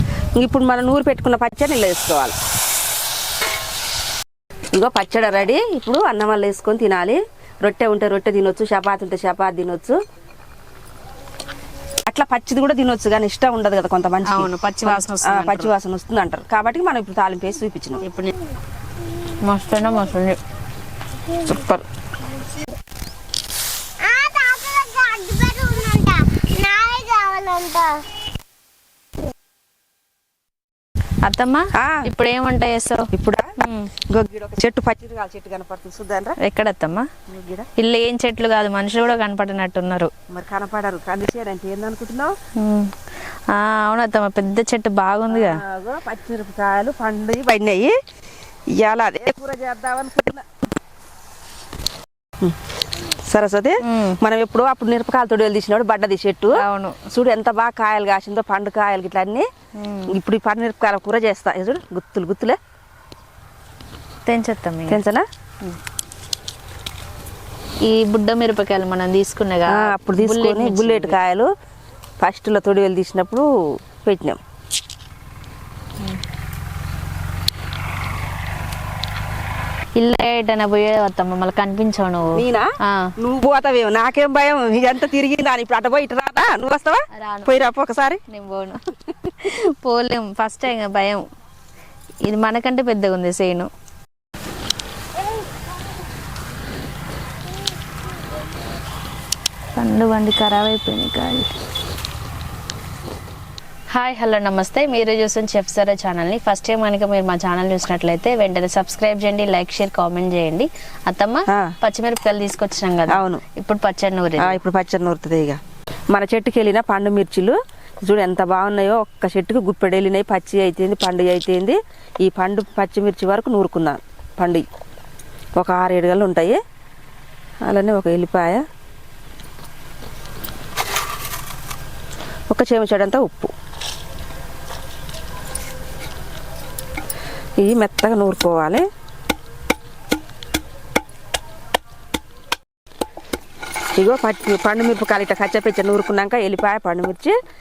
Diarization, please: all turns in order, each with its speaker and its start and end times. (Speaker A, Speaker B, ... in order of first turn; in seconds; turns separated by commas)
Speaker A: 0.4-2.4, Speaker A: 4.7-10.0, Speaker A: 12.1-18.0, Speaker B: 14.2-15.7, Speaker B: 18.0-18.4, Speaker B: 19.3-20.4, Speaker A: 21.3-21.9, Speaker C: 24.0-28.0, Speaker B: 31.2-33.9, Speaker A: 31.8-32.1, Speaker A: 33.1-36.4, Speaker B: 36.4-37.1, Speaker A: 37.3-37.7, Speaker B: 37.8-40.1, Speaker A: 40.3-42.3, Speaker B: 42.6-42.9, Speaker B: 43.5-45.6, Speaker A: 45.3-48.0, Speaker A: 48.7-50.6, Speaker A: 52.4-56.6, Speaker B: 53.8-54.2, Speaker B: 56.6-57.0, Speaker A: 57.1-59.5, Speaker B: 59.8-60.1, Speaker A: 60.1-62.6, Speaker B: 64.3-65.0, Speaker A: 64.9-65.3, Speaker B: 67.8-71.2, Speaker A: 69.7-71.5, Speaker A: 72.2-74.4, Speaker B: 80.0-83.1, Speaker A: 82.3-88.2, Speaker B: 87.1-87.6, Speaker B: 88.3-91.2, Speaker B: 92.2-93.7, Speaker B: 99.8-101.5, Speaker B: 103.9-114.6, Speaker A: 113.1-113.4, Speaker A: 114.4-124.7, Speaker A: 125.6-126.6, Speaker A: 127.7-128.6, Speaker A: 132.5-133.5, Speaker A: 137.6-138.8, Speaker A: 144.0-147.3